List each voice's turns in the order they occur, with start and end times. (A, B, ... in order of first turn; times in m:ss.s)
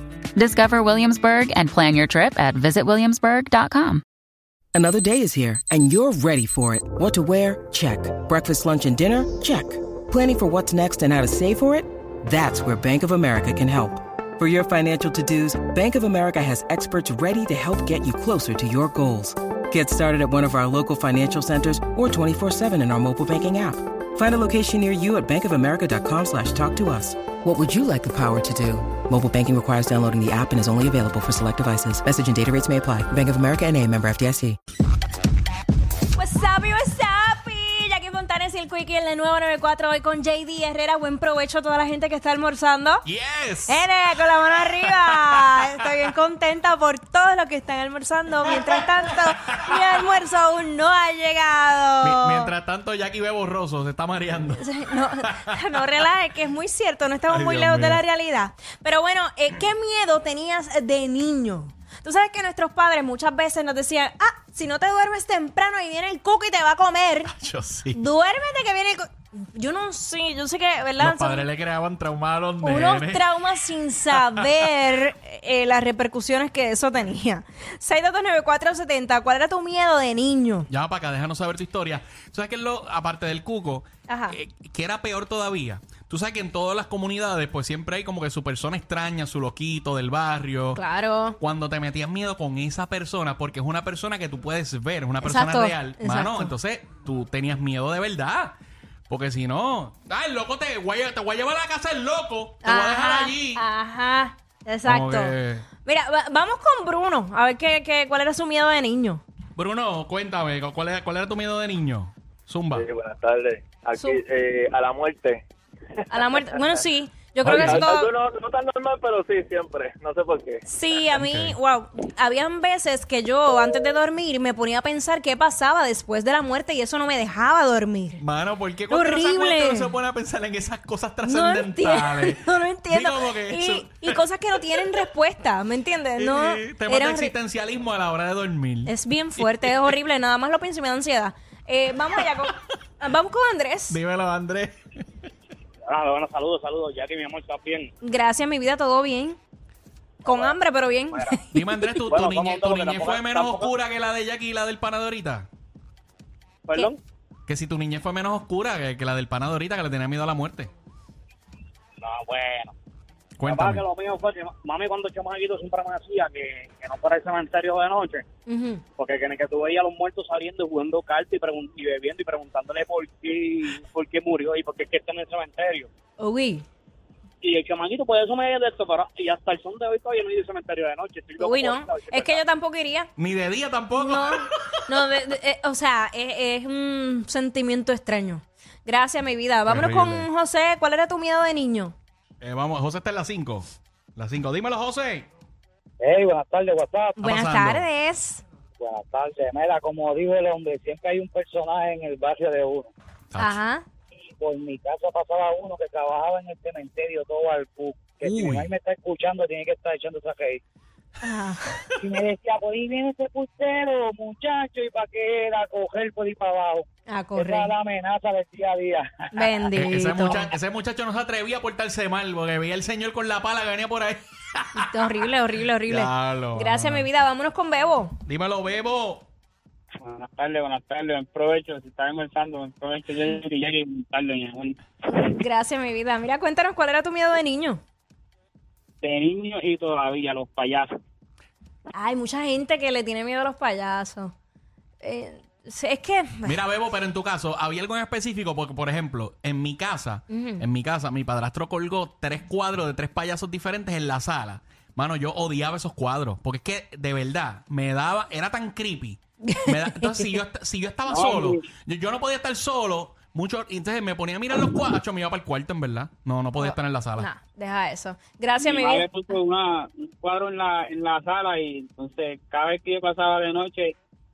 0:00.4-0:04.0 A
0:04.7-0:34.6 B
0:36.2-0:43.0 C
0:43.0-0:43.8 D
0:43.7-0:52.5 C
0:44.4-0:45.6 D
0:48.5-0:49.8 D
0:52.0-0:54.7 D
0:54.6-1:07.3 C
0:55.2-0:55.8 D
0:57.3-0:58.0 D
1:07.3-1:08.0 D
1:07.9-1:11.5 C
1:11.0-1:13.3 D
1:12.6-1:20.7 C
1:14.2-1:14.4 D
1:20.7-1:30.8 D
1:24.1-1:24.4 C
1:30.8-1:31.4 C
1:31.4-1:38.5 D
1:35.2-1:36.5 C
1:39.1-1:43.6 D
1:42.6-1:49.2 C
1:44.9-1:45.7 D
1:49.6-1:52.9 D
1:52.7-1:55.4 E
1:54.0-1:54.2 C
1:56.1-1:58.1 C
1:57.4-1:57.9 D
1:57.4-2:00.6 E
2:00.7-2:08.2 C
2:01.2-2:01.6 D
2:08.2-2:14.2 D
2:08.9-2:09.9 C
2:11.2-2:17.3 C
2:16.2-2:19.7 D
2:18.9-2:24.0 C
2:23.9-2:24.8 D
2:25.9-2:27.9 F
2:28.0-2:29.4 C
2:30.2-2:30.6 F
2:30.2-2:32.0 C
2:31.1-2:31.4 F
2:31.5-2:35.5 D
2:32.1-2:33.7 F
2:36.7-2:37.0 F
2:37.5-2:40.7 D
2:42.0-2:42.7 F
2:43.4-2:43.8 D
2:43.4-2:48.2 F
2:48.5-2:48.8 C
2:49.0-2:55.9 F
2:56.2-2:56.6 C
2:57.4-3:02.4 F
3:01.4-3:03.1 C
3:03.2-3:04.4 D
3:04.0-3:12.0 C
3:09.7-3:10.3 D
3:12.4-3:15.3 D
3:16.0-3:17.2 G
3:17.2-3:18.4 C
3:17.2-3:17.8 D
3:18.8-3:22.9 G
3:23.3-3:23.6 D
3:23.4-3:23.8 C
3:24.4-3:30.6 G
3:28.2-3:28.7 D
3:31.2-3:31.8 C
3:32.0-3:39.1 G
3:37.1-3:37.7 C
3:39.3-3:40.5 C
3:39.7-3:45.0 D
3:44.8-3:48.1 C
3:45.9-3:47.1 D
3:48.2-3:49.3 D
3:50.0-3:54.8 F
3:55.1-3:57.8 C
3:59.0-4:00.9 F
4:01.9-4:04.3 C
4:05.0-4:06.6 C
4:06.4-4:27.3 D
4:10.3-4:10.6 C
4:19.4-4:20.3 C
4:21.1-4:21.6 F
4:26.6-4:29.1 C
4:28.6-4:34.0 F